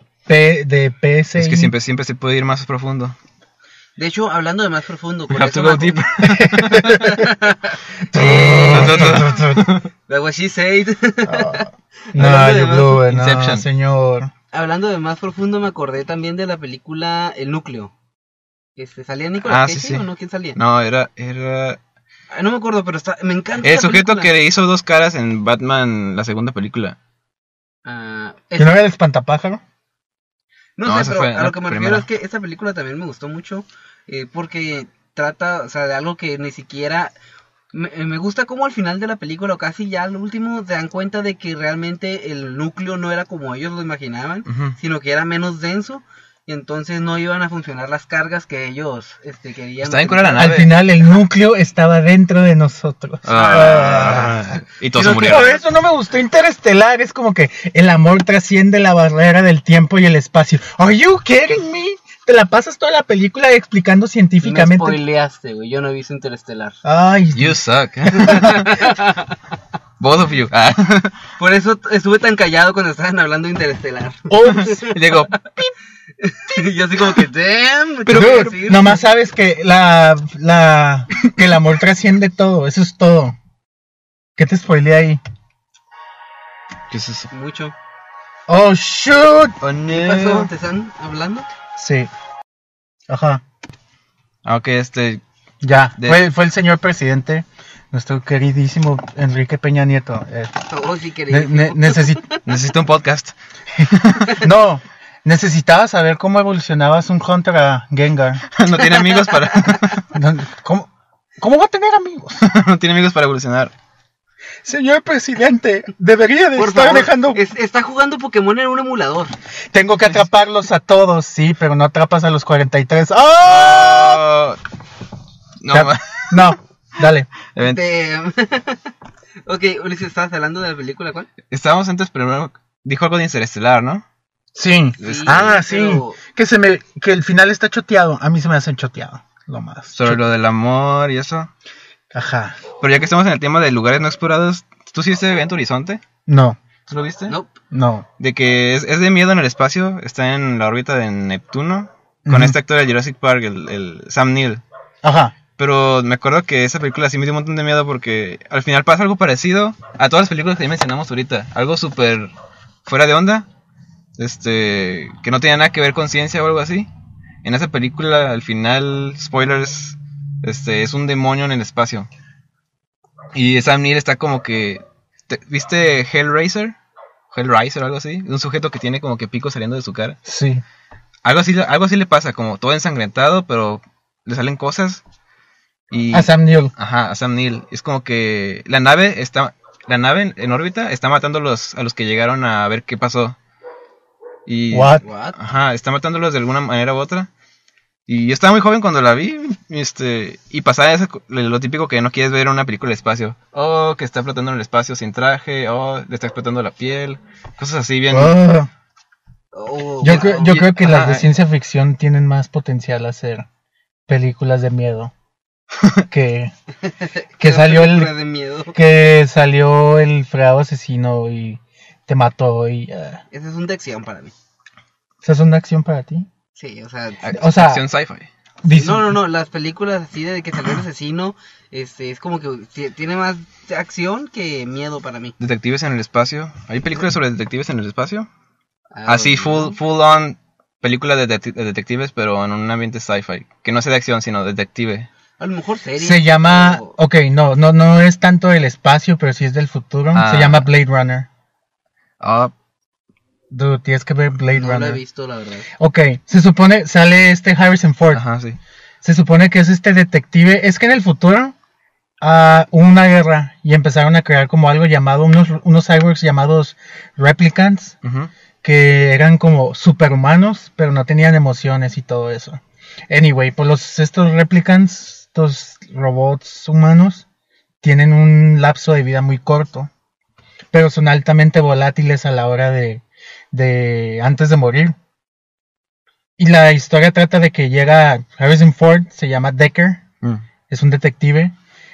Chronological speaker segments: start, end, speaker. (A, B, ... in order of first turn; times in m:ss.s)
0:00.3-0:01.7 A
0:01.4-0:03.2 B
0:04.0-0:09.2 C
0:05.3-0:06.9 B
0:06.2-0:07.2 A
0:08.1-0:09.7 A
0:08.7-0:09.9 B
0:10.1-0:13.0 C
0:11.3-0:11.6 A
0:12.2-0:14.3 A
0:13.0-0:13.7 B
0:14.5-0:17.9 C
0:18.8-0:20.6 C
0:19.4-0:21.8 B
0:22.3-0:24.3 C
0:23.6-0:27.0 B
0:27.8-0:28.8 C
0:28.6-0:29.6 A
0:30.8-0:37.1 C
0:30.8-0:32.1 B
0:37.7-0:50.6 C
0:44.5-0:44.8 B
0:49.8-0:50.8 B
0:50.3-0:54.4 A
0:53.2-0:55.5 B
0:53.3-0:55.6 C
0:55.0-1:05.0 A
1:04.4-1:06.8 C
1:06.8-1:07.6 A
1:07.4-1:08.9 B
1:08.1-1:09.4 C
1:10.0-1:11.2 B
1:11.4-1:14.9 C
1:14.3-1:14.8 A
1:14.6-1:15.7 B
1:16.2-1:19.0 C
1:18.1-1:18.5 B
1:18.1-1:23.4 A
1:24.4-1:25.2 A
1:26.9-1:27.3 B
1:27.3-1:27.8 C
1:28.5-1:29.6 A
1:29.6-1:30.5 B
1:29.9-1:31.5 C
1:31.8-1:32.1 A
1:33.1-1:33.4 A
1:34.4-1:35.2 B
1:35.6-1:40.6 A
1:36.0-1:36.2 B
1:40.7-1:42.4 C
1:41.3-1:42.2 A
1:42.4-1:44.4 B
1:44.4-1:48.4 A
1:48.5-1:50.0 B
1:48.8-1:49.9 C
1:50.1-1:52.4 A
1:52.4-1:53.7 B
1:54.6-1:57.4 A
1:56.6-1:59.3 C
1:59.7-2:04.2 A
2:03.4-2:04.6 B
2:05.6-2:06.5 B
2:05.7-2:07.3 A
2:07.5-2:07.8 B
2:07.6-2:08.9 C
2:09.5-2:11.3 C
2:11.5-2:14.0 B
2:14.6-2:20.2 A
2:15.0-2:16.2 C
2:15.0-2:15.5 B
2:19.9-2:21.5 B
2:22.1-2:22.6 A
2:22.8-2:26.0 B
2:26.3-2:26.6 A
2:26.9-2:27.4 B
2:27.3-2:27.5 C
2:27.7-2:28.1 A
2:28.2-2:34.6 B
2:32.3-2:32.6 A
2:35.0-2:35.3 A
2:35.6-2:42.3 B
2:42.8-2:43.5 B
2:44.2-2:46.9 B
2:47.4-2:52.1 B
2:53.3-2:56.8 B
2:57.3-3:00.2 B
3:00.2-3:00.6 A
3:01.2-3:05.0 B
3:05.9-3:13.4 B
3:06.1-3:06.7 A
3:14.5-3:17.3 B
3:14.7-3:15.0 A
3:15.0-3:15.4 C
3:18.1-3:28.4 B
3:28.1-3:28.7 A
3:29.5-3:30.5 C
3:30.0-3:33.5 A
3:30.0-3:31.3 B
3:34.1-3:35.1 A
3:36.1-3:36.5 A
3:36.8-3:38.8 C
3:37.4-3:38.1 A
3:38.7-3:43.2 A
3:43.3-3:44.3 C
3:45.2-3:46.3 A
3:46.6-3:47.3 C
3:47.2-3:48.3 B
3:47.3-3:47.8 A
3:48.6-3:49.2 A
3:48.7-3:55.4 C
3:55.4-3:58.3 B
3:58.9-3:59.8 C
3:59.1-4:05.1 B
4:05.4-4:06.9 C
4:06.0-4:11.3 A
4:10.1-4:10.7 B
4:12.2-4:12.5 B
4:13.5-4:15.0 A
4:14.5-4:15.7 C
4:15.8-4:18.2 A
4:18.1-4:18.6 B
4:19.0-4:21.6 A
4:22.2-4:28.0 A
4:28.0-4:28.3 B
4:28.6-4:37.3 A
4:37.8-4:39.9 A
4:40.7-4:45.0 A
4:46.4-4:50.0 A
4:50.7-4:51.6 A